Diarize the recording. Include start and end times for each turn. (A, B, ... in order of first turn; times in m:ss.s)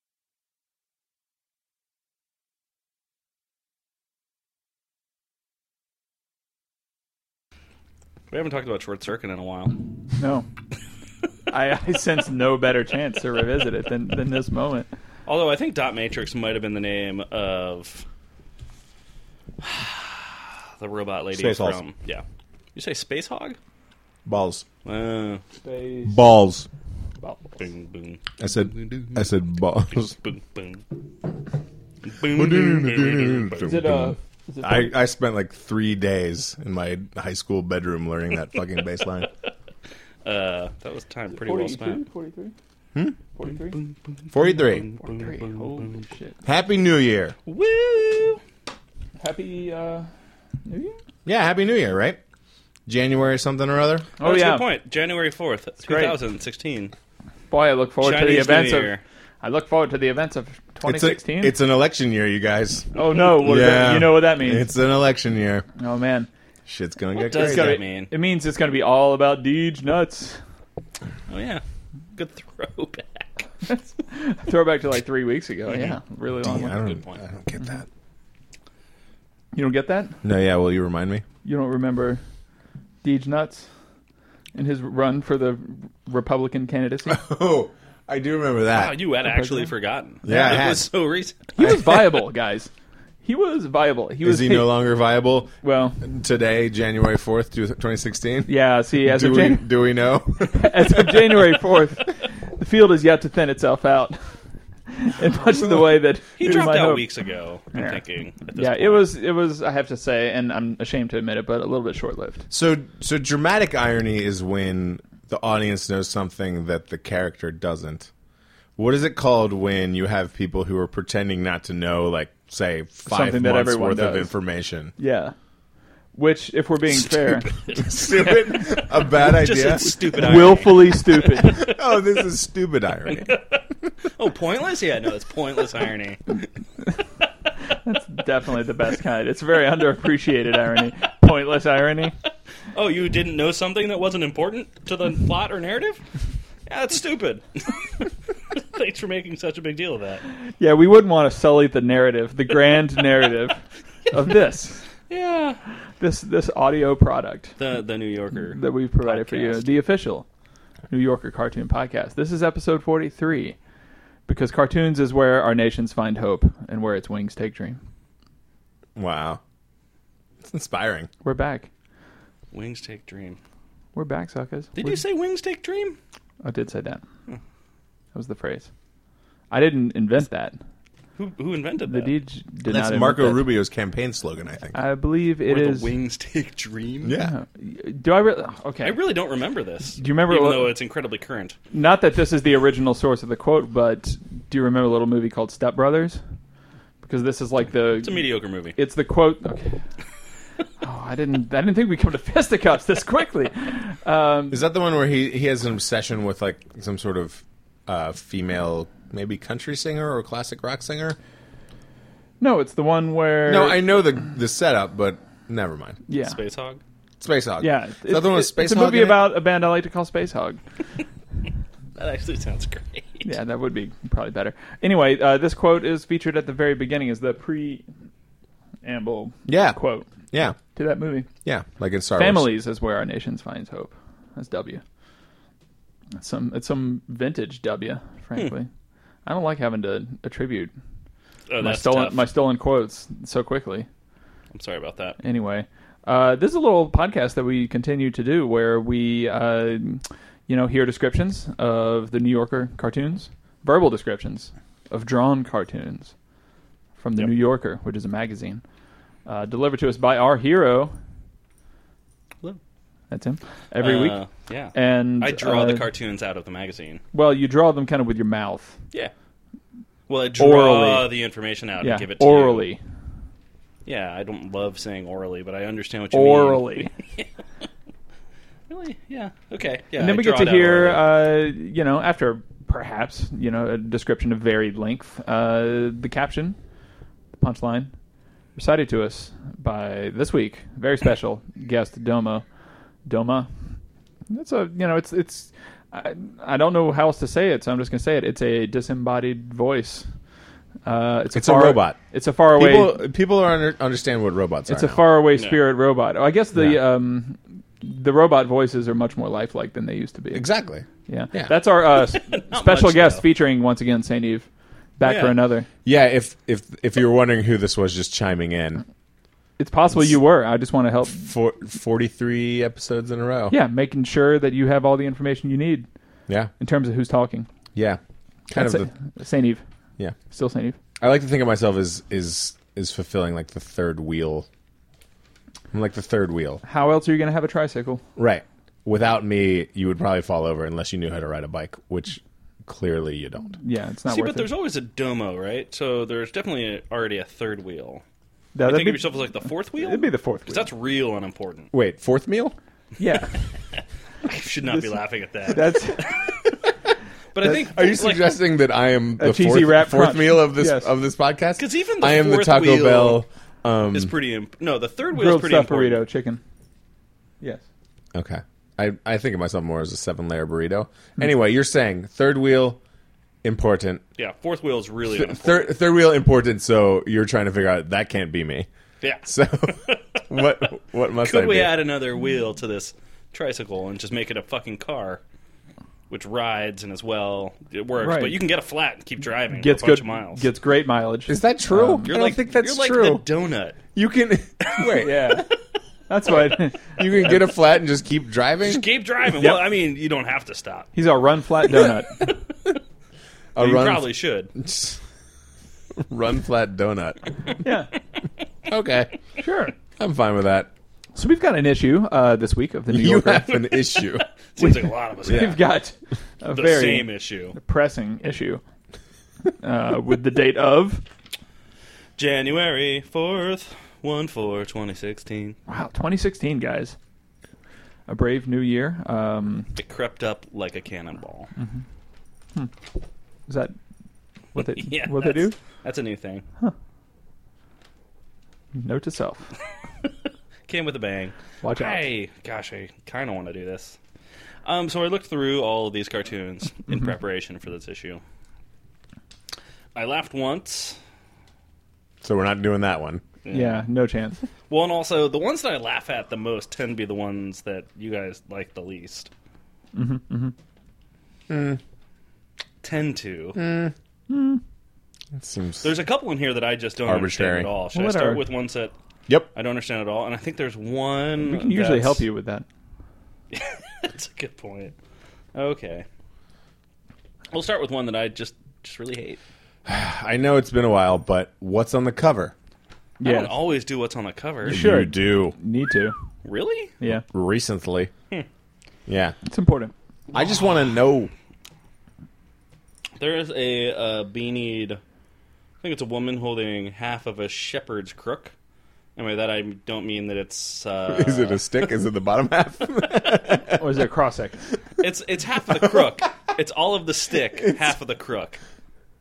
0:08.3-0:09.8 A
0:10.2-0:10.4 B
0:11.5-0:14.9 B
0:15.2-0:18.0 A
0:19.6-0:23.6 A
0:21.3-0:21.8 C
0:24.2-0:24.6 C
0:24.8-0:25.4 A
0:25.6-0:26.2 B
0:26.0-0:26.7 C
0:27.2-0:27.6 B
0:27.6-0:29.3 A
0:28.4-0:30.1 C
0:30.0-0:31.0 A
0:32.0-0:33.8 A
0:32.3-0:39.3 C
0:33.6-0:34.9 B
0:40.2-0:42.0 A
0:41.3-0:42.5 B
0:43.4-0:43.8 B
0:43.7-0:46.0 A
0:44.3-0:44.9 C
0:45.0-0:46.3 B
0:46.4-0:47.3 C
0:47.4-0:48.4 A
0:49.2-0:50.1 B
0:50.6-0:51.0 B
0:51.2-0:52.2 C
0:52.9-0:54.1 C
0:54.2-0:54.6 B
0:54.2-0:56.9 A
0:55.8-0:56.2 B
0:57.5-1:01.5 B
0:58.0-0:59.0 A
1:00.8-1:05.7 C
1:02.9-1:04.7 B
1:05.8-1:06.3 B
1:06.6-1:07.8 C
1:07.2-1:08.1 A
1:07.3-1:10.4 B
1:11.3-1:11.6 A
1:12.1-1:13.3 A
1:13.7-1:16.8 B
1:15.7-1:17.2 A
1:16.4-1:17.9 C
1:19.5-1:20.2 B
1:20.2-1:21.2 C
1:21.4-1:22.2 B
1:23.0-1:23.7 B
1:24.5-1:27.2 B
1:27.1-1:29.0 C
1:28.7-1:31.5 A
1:29.2-1:29.7 B
1:30.2-1:30.9 C
1:30.3-1:30.6 B
1:31.6-1:32.7 B
1:31.6-1:32.0 C
1:33.2-1:34.7 B
1:34.2-1:41.4 C
1:35.6-1:36.0 B
1:38.5-1:39.6 B
1:40.5-1:44.3 B
1:44.9-1:47.1 B
1:46.4-1:49.1 A
1:47.7-1:48.0 B
1:48.5-1:52.4 B
1:52.5-1:58.1 C
1:58.8-2:04.9 C
2:03.0-2:04.3 B
2:05.0-2:05.3 B
2:06.1-2:07.5 B
2:07.1-2:11.8 A
2:07.8-2:09.9 C
2:09.8-2:11.6 B
2:11.6-2:13.3 C
2:13.1-2:16.4 A
2:17.7-2:22.1 B
2:22.7-2:26.0 A
2:26.7-2:30.2 A
2:30.6-2:34.9 B
2:35.1-2:35.6 A
2:36.0-2:37.6 B
2:37.6-2:39.8 A
2:38.5-2:40.2 B
2:40.9-2:43.6 B
2:44.3-2:47.8 B
2:49.0-2:49.4 C
2:50.4-2:51.1 C
2:51.2-2:51.7 B
2:52.5-2:53.4 A
2:53.9-2:55.0 B
2:54.8-2:56.0 A
2:56.4-2:57.0 B
2:58.1-2:58.7 B
2:59.5-3:00.6 B
3:01.2-3:02.2 A
3:01.8-3:03.4 B
3:02.6-3:04.8 C
3:04.7-3:05.9 B
3:05.5-3:07.2 A
3:07.0-3:07.3 C
3:07.2-3:09.0 B
3:08.8-3:11.6 A
3:10.0-3:10.7 B
3:11.7-3:16.2 B
3:17.0-3:19.8 B
3:18.0-3:18.8 A
3:20.8-3:24.6 B
3:24.5-3:31.2 C
3:32.4-3:33.9 B
3:33.4-3:36.0 C
3:36.1-3:36.4 B
3:36.2-3:36.8 A
3:37.2-3:39.3 C
3:37.6-3:40.6 B
3:42.0-3:43.3 A
3:43.2-3:47.8 B
3:48.8-3:50.0 B
3:49.5-3:49.8 C
3:50.3-3:50.6 C
3:50.7-3:51.3 B
3:51.4-3:52.5 C
3:52.2-3:54.8 B
3:56.2-3:58.7 B
3:59.2-4:00.7 B
4:01.5-4:02.3 A
4:01.6-4:03.9 B
4:04.5-4:05.2 A
4:05.2-4:16.1 B
4:17.0-4:18.6 B
4:19.2-4:20.9 B
4:23.1-4:24.2 B
4:23.8-4:27.0 A
4:24.7-4:25.8 B
4:27.1-4:28.8 B
4:30.1-4:32.7 A
4:30.4-4:31.1 B
4:31.8-4:32.8 B
4:33.8-4:37.3 A
4:36.1-4:36.9 B
4:38.7-4:41.1 A
4:40.0-4:46.6 B
4:47.3-4:47.9 B
4:48.6-4:52.4 B
4:53.0-4:53.5 B
4:54.3-5:00.0 B
5:00.8-5:03.0 B
5:01.3-5:02.0 C
5:02.5-5:05.0 C
5:04.7-5:10.4 B
5:05.3-5:05.6 A
5:06.5-5:06.8 C
5:10.3-5:11.5 C
5:11.1-5:14.5 B
5:12.1-5:13.2 A
5:15.0-5:15.7 B
5:15.0-5:15.4 A
5:15.8-5:18.8 C
5:19.6-5:21.3 B
5:21.2-5:23.6 C
5:23.5-5:25.9 B
5:26.6-5:27.5 B
5:27.7-5:28.9 C
5:28.5-5:29.6 B
5:30.3-5:30.8 B
5:31.0-5:34.5 C
5:35.7-5:36.6 C
5:36.6-5:38.0 B
5:38.2-5:43.6 C
5:43.6-5:44.5 B
5:44.1-5:48.0 A
5:48.5-5:50.7 B
5:48.6-5:51.7 A
5:51.7-5:52.5 C
5:53.0-5:53.4 B
5:54.2-5:56.5 A
5:54.6-5:56.1 B
5:57.3-5:58.4 A
5:57.4-6:04.1 C
5:59.2-6:00.9 B
6:01.6-6:03.2 A
6:03.9-6:06.0 A
6:05.1-6:06.4 B
6:08.1-6:12.8 C
6:13.4-6:14.0 C
6:14.2-6:15.7 A
6:15.1-6:18.7 C
6:19.0-6:20.2 A
6:19.2-6:21.7 C
6:21.2-6:25.2 A
6:26.1-6:30.4 A
6:28.0-6:28.4 B
6:29.5-6:32.1 B
6:31.3-6:33.2 C
6:32.0-6:33.8 A
6:33.9-6:35.4 C
6:34.7-6:35.3 A
6:34.9-6:35.5 B
6:36.1-6:37.4 B
6:37.0-6:38.8 C
6:38.6-6:40.9 A
6:40.9-6:42.3 B
6:43.5-6:45.0 C
6:43.6-6:44.5 A
6:46.0-6:47.3 C
6:47.6-6:47.9 B
6:48.6-6:49.1 C
6:49.4-6:49.7 B
6:50.0-6:50.7 C
6:51.1-6:53.5 B
6:52.9-6:54.2 C
6:53.4-6:55.6 A
6:54.6-6:58.6 B
6:55.2-6:55.6 C
6:56.5-6:57.6 A
6:59.6-7:01.0 B
7:02.2-7:05.6 A
7:05.7-7:07.0 B
7:08.1-7:09.7 B
7:09.8-7:11.5 A
7:11.6-7:11.8 B
7:13.5-7:13.7 B
7:14.5-7:15.6 B
7:14.6-7:16.4 A
7:18.8-7:19.5 B
7:20.7-7:24.0 A
7:21.6-7:22.0 B
7:24.6-7:28.2 A
7:29.9-7:31.0 A
7:32.2-7:33.2 C
7:33.4-7:33.8 A
7:33.5-7:34.4 B
7:34.7-7:39.3 A
7:39.9-7:40.5 B
7:41.5-7:41.8 C
7:42.8-7:43.6 A
7:43.5-7:43.9 C
7:44.3-7:44.6 B
7:45.3-7:45.9 C
7:45.8-7:48.9 A
7:47.0-7:47.7 C
7:47.9-7:48.4 B
7:49.5-7:52.2 A
7:51.4-7:52.6 B
7:53.5-7:54.9 A
7:55.5-7:56.0 A
7:57.5-7:59.4 A
7:59.8-8:02.5 C
8:03.2-8:03.6 B
8:03.2-8:04.8 A
8:04.6-8:05.5 C
8:04.6-8:06.2 B
8:06.4-8:06.9 A
8:07.0-8:07.2 B
8:07.3-8:08.1 C
8:09.1-8:09.4 C
8:09.5-8:09.9 B
8:10.3-8:11.3 C
8:13.2-8:15.0 A
8:15.8-8:18.5 A
8:19.2-8:21.9 A
8:21.1-8:23.8 C
8:23.7-8:24.7 B
8:25.0-8:28.6 A
8:25.7-8:26.1 C